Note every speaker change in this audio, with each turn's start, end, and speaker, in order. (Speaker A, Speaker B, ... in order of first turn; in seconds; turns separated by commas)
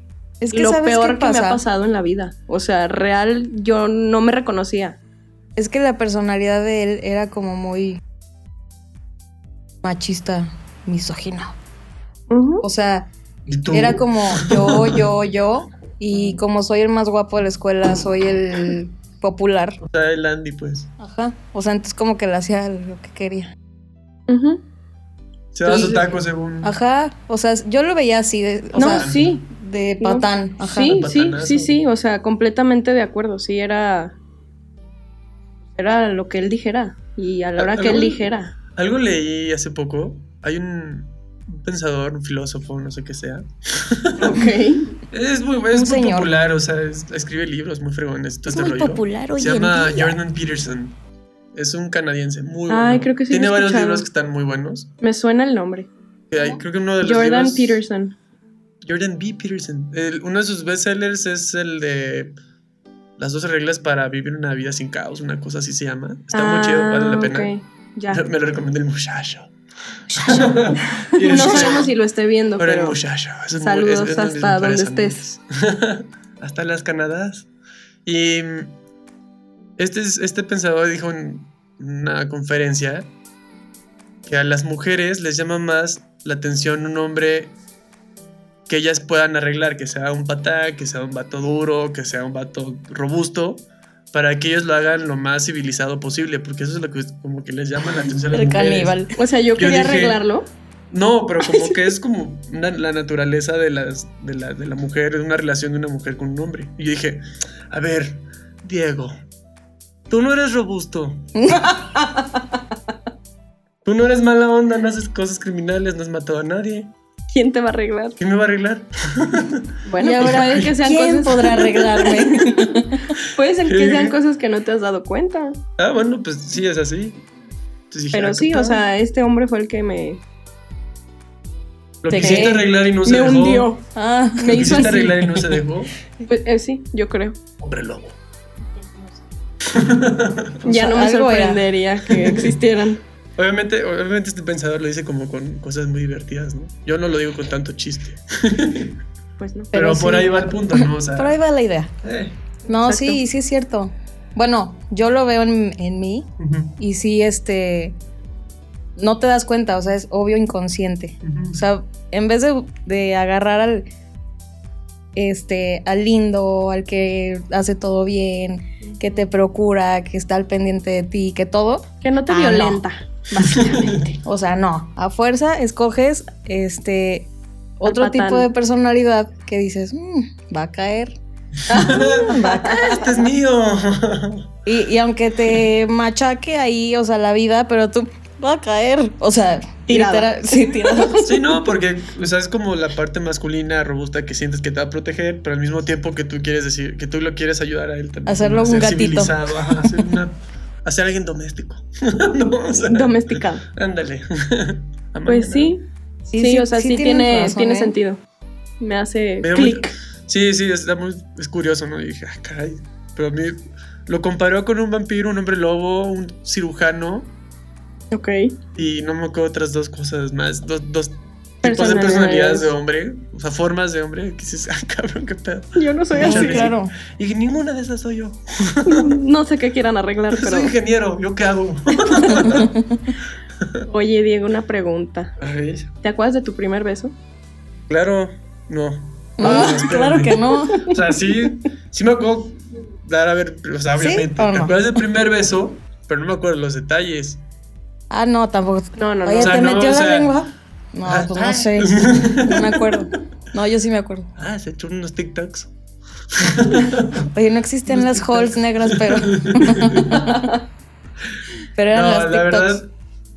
Speaker A: 0.4-1.6, Speaker B: 0.5-5.0, Speaker A: 5.6-8.0, Speaker A: 9.8-11.6, Speaker B: 12.3-12.6, Speaker A: 12.6-13.1, Speaker C: 13.5-15.0, Speaker A: 13.7-19.8, Speaker C: 19.8-20.9, Speaker A: 21.0-23.5, Speaker B: 24.3-24.6, Speaker C: 25.5-26.8, Speaker B: 25.7-26.0, Speaker A: 26.6-31.1, Speaker B: 28.8-29.4, Speaker C: 28.8-29.4, Speaker B: 30.0-34.2, Speaker C: 30.9-31.8, Speaker B: 35.8-38.5, Speaker C: 37.6-38.2, Speaker C: 38.8-44.4, Speaker B: 44.2-44.9, Speaker C: 45.1-51.0, Speaker A: 45.7-46.3, Speaker A: 48.5-50.2, Speaker C: 51.5-54.9, Speaker B: 52.7-54.1, Speaker B: 55.0-55.9, Speaker C: 56.3-57.8, Speaker B: 57.0-58.2, Speaker C: 58.8-62.3, Speaker C: 63.2-67.5, Speaker B: 66.3-68.2, Speaker C: 68.1-69.5, Speaker A: 70.1-70.6, Speaker C: 70.2-71.9, Speaker B: 70.9-73.0, Speaker A: 71.3-71.8, Speaker C: 72.6-77.5, Speaker B: 73.6-75.2, Speaker C: 78.0-78.8, Speaker C: 79.8-83.1, Speaker C: 84.2-87.6, Speaker C: 88.7-99.0, Speaker A: 98.3-99.1, Speaker B: 99.2-100.5, Speaker C: 99.5-100.2, Speaker C: 100.9-109.2, Speaker C: 110.1-111.3, Speaker A: 111.4-112.2, Speaker C: 113.8-116.9, Speaker B: 117.3-118.2, Speaker C: 118.2-120.7, Speaker B: 119.8-125.6, Speaker A: 120.0-123.2, Speaker C: 123.7-124.2, Speaker C: 125.8-127.2, Speaker C: 127.9-128.8, Speaker B: 128.1-130.2, Speaker C: 132.0-133.7, Speaker A: 132.1-132.7, Speaker B: 132.2-133.8, Speaker A: 133.9-134.8, Speaker B: 134.4-135.5, Speaker C: 134.5-135.9, Speaker B: 136.2-137.4, Speaker C: 137.6-138.2, Speaker C: 139.6-140.6, Speaker A: 140.6-141.6, Speaker B: 140.7-143.0, Speaker C: 142.1-142.6, Speaker C: 143.4-149.0, Speaker B: 149.4-149.7, Speaker C: 149.7-151.4, Speaker A: 149.7-151.9, Speaker C: 152.0-152.4, Speaker A: 152.7-158.0, Speaker B: 152.7-153.2, Speaker C: 156.4-156.7, Speaker A: 159.0-163.9, Speaker C: 161.2-161.6, Speaker A: 165.2-172.8, Speaker B: 168.8-169.2, Speaker B: 172.0-174.2, Speaker C: 173.4-174.1, Speaker A: 174.2-181.2, Speaker B: 177.8-178.5, Speaker B: 181.7-183.1, Speaker C: 181.7-184.5, Speaker A: 181.7-183.0, Speaker A: 184.7-191.3, Speaker B: 189.9-191.2, Speaker C: 191.2-205.7, Speaker A: 198.3-199.9, Speaker B: 202.8-203.7, Speaker B: 205.3-205.8, Speaker A: 206.3-207.9, Speaker B: 206.4-208.2, Speaker B: 208.8-209.9, Speaker C: 209.4-217.3, Speaker B: 218.1-218.6, Speaker C: 218.8-229.1, Speaker B: 221.6-222.7, Speaker B: 225.8-226.7, Speaker A: 226.2-226.9, Speaker B: 228.8-230.7, Speaker C: 230.3-232.7, Speaker B: 231.9-232.6, Speaker A: 232.5-233.0, Speaker C: 233.6-233.9, Speaker B: 233.9-235.3, Speaker C: 235.4-235.9, Speaker B: 236.0-237.1, Speaker C: 237.9-247.4, Speaker A: 239.4-240.9, Speaker A: 244.0-244.8, Speaker A: 248.1-254.3, Speaker B: 249.0-249.8, Speaker C: 249.4-250.3, Speaker C: 251.1-253.0, Speaker C: 254.4-255.7, Speaker C: 256.3-257.3, Speaker A: 257.2-260.5, Speaker C: 258.0-260.3, Speaker B: 260.2-260.6, Speaker A: 261.8-262.8, Speaker C: 261.9-262.9